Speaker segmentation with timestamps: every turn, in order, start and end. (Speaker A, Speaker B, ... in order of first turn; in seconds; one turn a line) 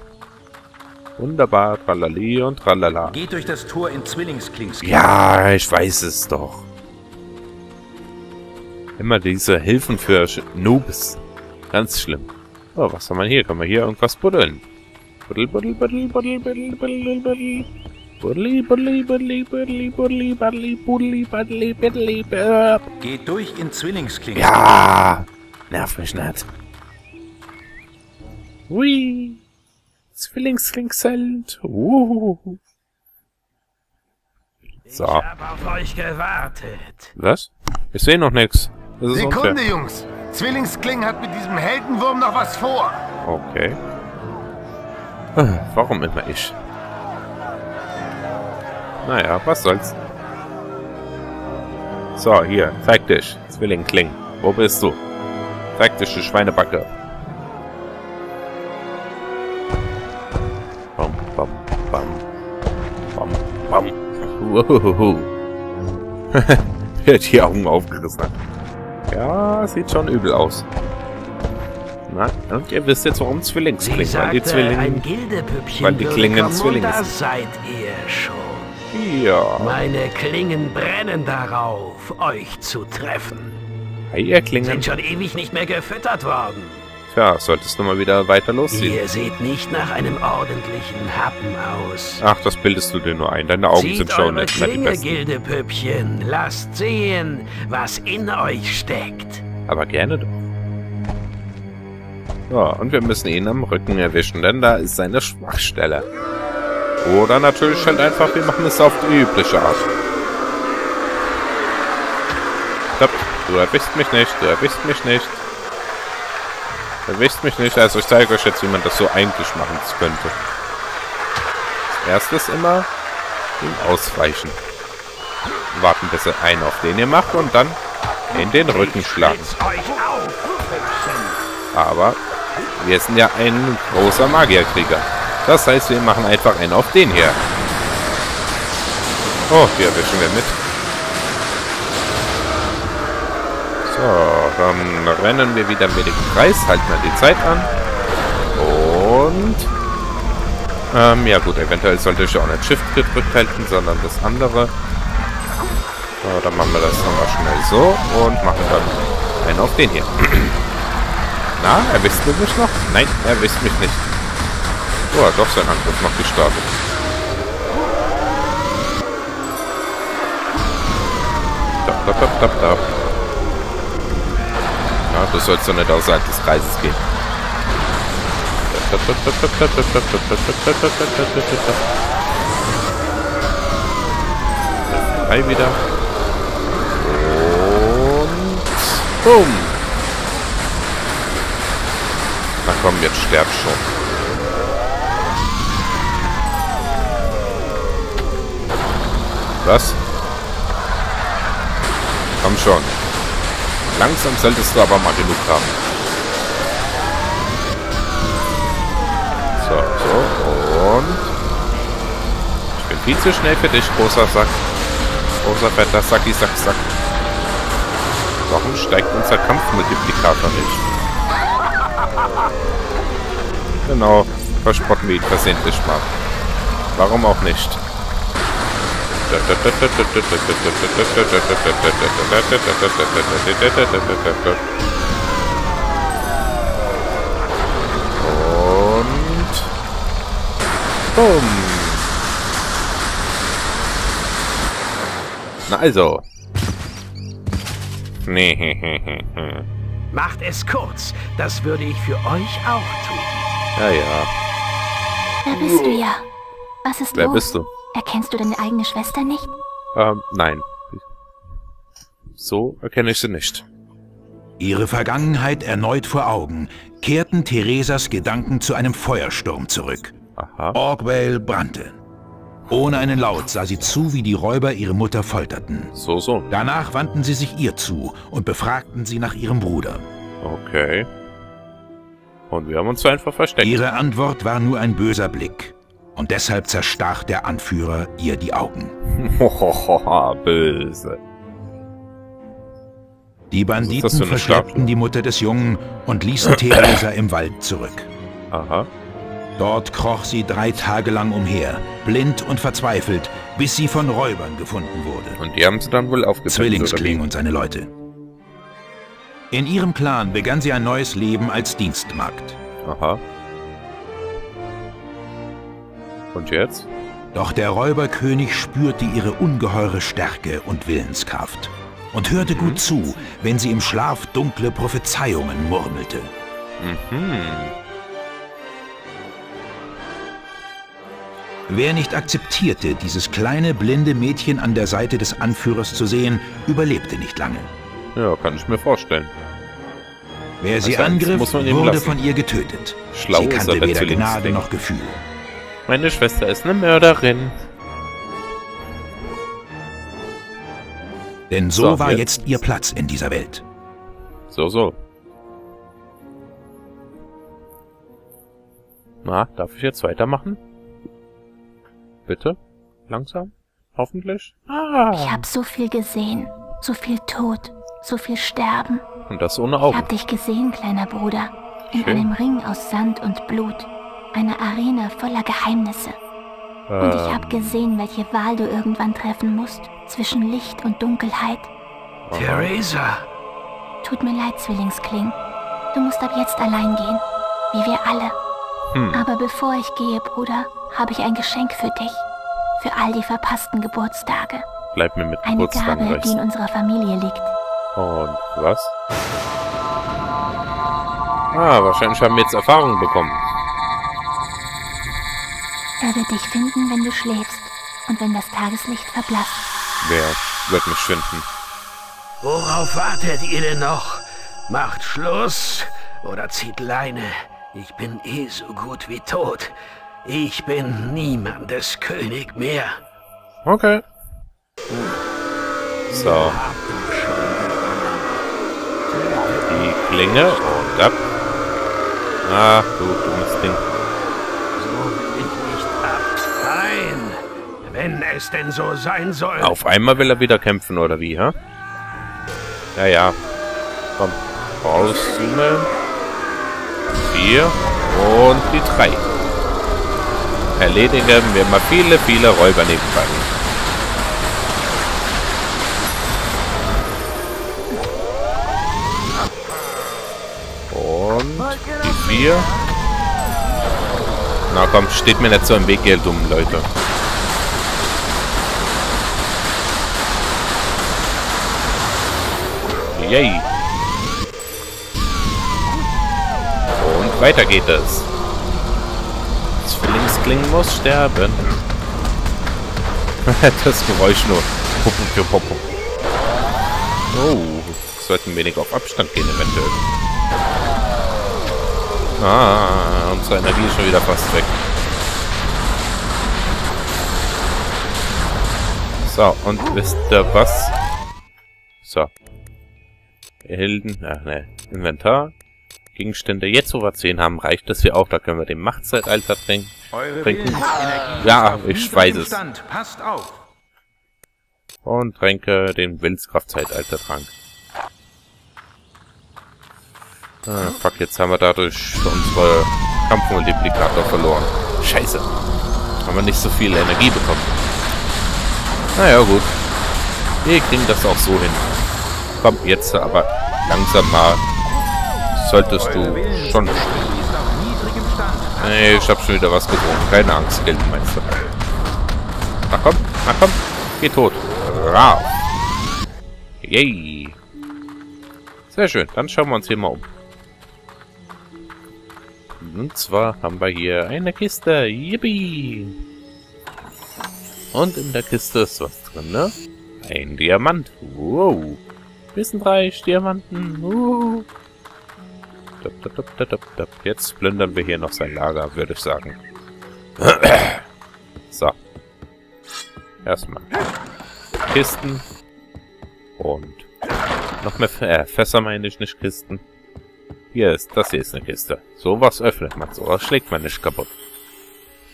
Speaker A: 1.2-3.1
Speaker B: 3.0-5.1
Speaker A: 4.8-6.7
Speaker A: 9.0-11.2
Speaker A: 11.7-14.6
Speaker A: 15.3-17.7
Speaker A: 18.2-22.8
Speaker B: 23.0-24.6
Speaker A: 24.3-26.5
Speaker A: 28.7-29.4
Speaker A: 30.1-32.6
Speaker C: 34.9-37.1
Speaker A: 34.9-35.3
Speaker A: 37.1-39.6
Speaker D: 39.1-43.0
Speaker A: 43.2-43.8
Speaker A: 45.4-46.6
Speaker A: 49.0-50.0
Speaker A: 52.1-55.0
Speaker A: 55.8-56.9
Speaker A: 61.0-62.2
Speaker A: 63.1-65.3
Speaker A: 66.3-68.3
Speaker A: 69.1-70.7
Speaker A: 72.1-75.1
Speaker C: 73.8-78.7
Speaker A: 75.7-77.1
Speaker A: 78.9-79.8
Speaker C: 79.6-83.6
Speaker A: 84.1-84.9
Speaker C: 84.6-86.8
Speaker A: 87.1-89.0
Speaker C: 88.7-92.2
Speaker A: 92.2-95.2
Speaker C: 93.7-99.4
Speaker A: 99.7-100.4
Speaker A: 102.5-106.0
Speaker A: 107.0-109.9
Speaker A: 112.9-115.4
Speaker A: 117.0-120.3
Speaker A: 121.9-122.9
Speaker A: 123.6-124.6
Speaker A: 125.7-127.8
Speaker A: 128.3-129.5
Speaker C: 128.3-131.4
Speaker A: 131.7-132.2
Speaker A: 132.7-137.4
Speaker A: 139.5-140.6
Speaker A: 143.8-147.7
Speaker A: 148.6-149.7
Speaker A: 150.9-154.7
Speaker A: 156.2-160.6
Speaker A: 161.6-164.1
Speaker A: 165.1-166.7
Speaker A: 171.8-172.8
Speaker A: 175.0-177.0
Speaker A: 178.7-181.8
Speaker A: 185.1-185.8
Speaker A: 186.9-189.8
Speaker A: 192.6-193.9
Speaker A: 199.6-200.0
Speaker A: 202.4-203.0
Speaker A: 203.9-205.8
Speaker A: 209.6-211.3
Speaker A: 212.7-214.6
Speaker A: 215.4-216.9
Speaker A: 218.5-220.8
Speaker A: 223.8-226.1
Speaker A: 226.9-227.8
Speaker A: 229.3-234.6
Speaker A: 238.2-239.7
Speaker A: 241.1-242.1
Speaker A: 245.7-246.2
Speaker A: 248.2-249.6
Speaker C: 250.1-253.4
Speaker A: 253.8-254.3
Speaker E: 255.4-256.3
Speaker E: 256.8-259.5
Speaker A: 257.1-257.7
Speaker A: 259.9-261.0
Speaker A: 262.4-263.6
Speaker B: 264.6-270.1
Speaker A: 270.4-270.8
Speaker B: 270.7-272.0
Speaker B: 272.7-275.9
Speaker A: 275.9-276.5
Speaker B: 276.5-280.0
Speaker A: 280.4-281.1
Speaker A: 282.5-283.8
Speaker B: 283.6-288.9
Speaker A: 289.1-291.2
Speaker B: 293.5-298.1
Speaker A: 293.8-294.9
Speaker A: 298.5-298.9
Speaker B: 299.6-305.4
Speaker A: 305.4-307.2
Speaker B: 306.5-307.9
Speaker B: 309.5-312.6
Speaker A: 312.8-313.2
Speaker A: 316.3-316.9
Speaker B: 317.3-326.3
Speaker A: 322.4-322.8
Speaker A: 326.8-327.7
Speaker B: 331.7-337.7
Speaker A: 338.1-339.3
Speaker B: 340.6-345.2
Speaker A: 340.8-342.2
Speaker A: 343.1-344.6
Speaker A: 345.9-347.6
Speaker B: 351.5-353.6
Speaker A: 351.7-352.6
Speaker A: 354.5-355.0
Speaker A: 359.2-360.6
Speaker A: 362.2-365.5
Speaker E: 365.1-369.0
Speaker A: 369.3-370.1
Speaker E: 369.8-376.2
Speaker A: 371.9-372.3
Speaker A: 376.9-377.8
Speaker E: 377.0-381.7
Speaker A: 382.2-382.8
Speaker C: 382.3-383.3
Speaker E: 384.0-385.4
Speaker E: 385.9-388.4
Speaker A: 388.9-389.2
Speaker E: 389.1-392.2
Speaker E: 392.8-394.7
Speaker A: 394.9-396.4
Speaker E: 395.4-397.5
Speaker A: 397.9-398.9
Speaker A: 401.5-403.4
Speaker E: 406.0-409.6
Speaker A: 410.0-411.5
Speaker C: 412.4-423.0
Speaker A: 423.6-424.0
Speaker A: 426.1-426.6
Speaker C: 426.1-428.4
Speaker C: 429.1-430.5
Speaker A: 429.6-431.2
Speaker A: 432.4-433.8
Speaker C: 434.8-439.8
Speaker A: 439.6-441.6
Speaker A: 442.9-443.4
Speaker A: 444.2-445.9
Speaker A: 447.2-449.3
Speaker A: 450.8-453.5
Speaker A: 460.9-462.7
Speaker A: 464.7-466.9
Speaker A: 473.1-473.7
Speaker A: 477.0-478.3
Speaker A: 479.8-481.6
Speaker A: 483.4-485.9
Speaker A: 487.3-490.0
Speaker A: 492.4-494.8
Speaker A: 499.2-500.9
Speaker A: 502.0-502.3
Speaker A: 503.6-505.5
Speaker A: 506.1-510.9
Speaker B: 510.1-513.6
Speaker A: 511.4-512.6
Speaker A: 515.0-517.5
Speaker A: 520.6-525.5
Speaker A: 526.2-527.8
Speaker A: 529.1-529.7
Speaker A: 530.6-531.9
Speaker A: 532.5-534.6
Speaker A: 535.5-537.3
Speaker B: 536.0-539.2
Speaker A: 538.8-541.6
Speaker A: 542.9-545.5
Speaker A: 546.8-547.6
Speaker A: 548.9-550.3
Speaker A: 552.8-556.2
Speaker A: 557.9-562.0
Speaker A: 562.5-564.7
Speaker A: 566.0-569.6
Speaker A: 570.4-571.0
Speaker A: 571.7-572.0
Speaker A: 573.4-573.9
Speaker A: 574.9-575.5
Speaker A: 576.6-577.1
Speaker A: 577.8-579.8
Speaker A: 580.7-584.3